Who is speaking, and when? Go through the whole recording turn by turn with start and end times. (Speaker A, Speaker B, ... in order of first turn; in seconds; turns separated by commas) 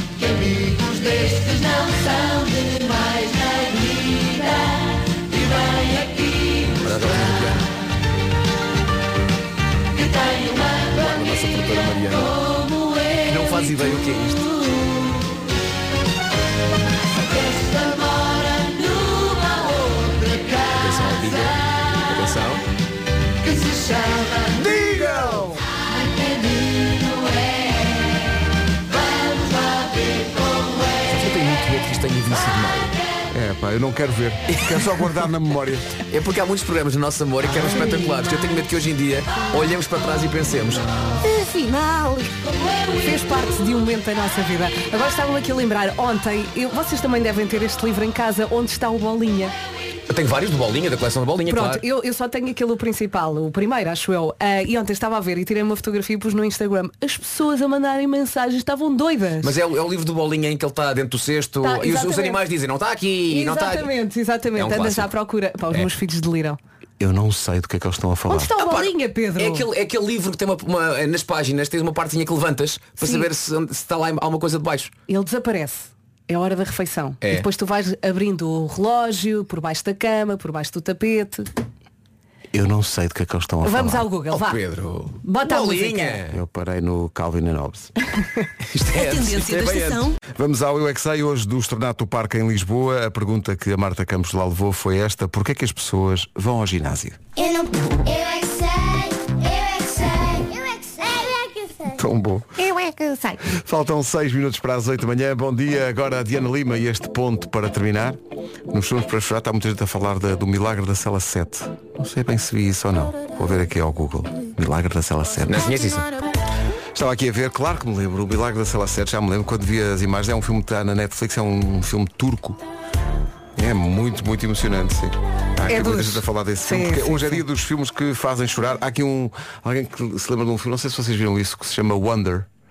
Speaker A: 6.8-7.6, Speaker B: 11.0-12.2, Speaker A: 11.5-12.1, Speaker A: 13.3-14.8, Speaker A: 20.5-22.6, Speaker B: 24.5-25.5, Speaker A: 24.5-25.5, Speaker A: 31.0-33.0, Speaker B: 33.3-36.0, Speaker A: 36.1-40.8, Speaker C: 37.7-38.0, Speaker C: 41.2-42.3, Speaker C: 42.9-49.5, Speaker A: 50.1-51.8, Speaker C: 51.5-59.5, Speaker A: 59.4-63.9, Speaker C: 61.6-62.4, Speaker C: 63.3-66.6, Speaker A: 64.5-65.1, Speaker B: 67.0-68.5, Speaker C: 68.3-69.7, Speaker A: 68.6-74.9, Speaker C: 73.0-73.3, Speaker C: 75.1-81.5, Speaker B: 82.5-84.1, Speaker C: 83.6-84.6, Speaker A: 84.3-86.4, Speaker C: 85.2-86.2, Speaker B: 86.3-87.9, Speaker A: 88.7-90.1, Speaker C: 89.0-89.5, Speaker B: 90.3-97.2, Speaker D: 97.4-101.9, Speaker B: 101.9-102.6, Speaker D: 102.7-103.1, Speaker B: 103.4-108.2, Speaker B: 108.7-115.7, Speaker A: 115.5-116.1, Speaker B: 116.9-122.6, Speaker B: 123.5-132.5, Speaker C: 125.7-127.4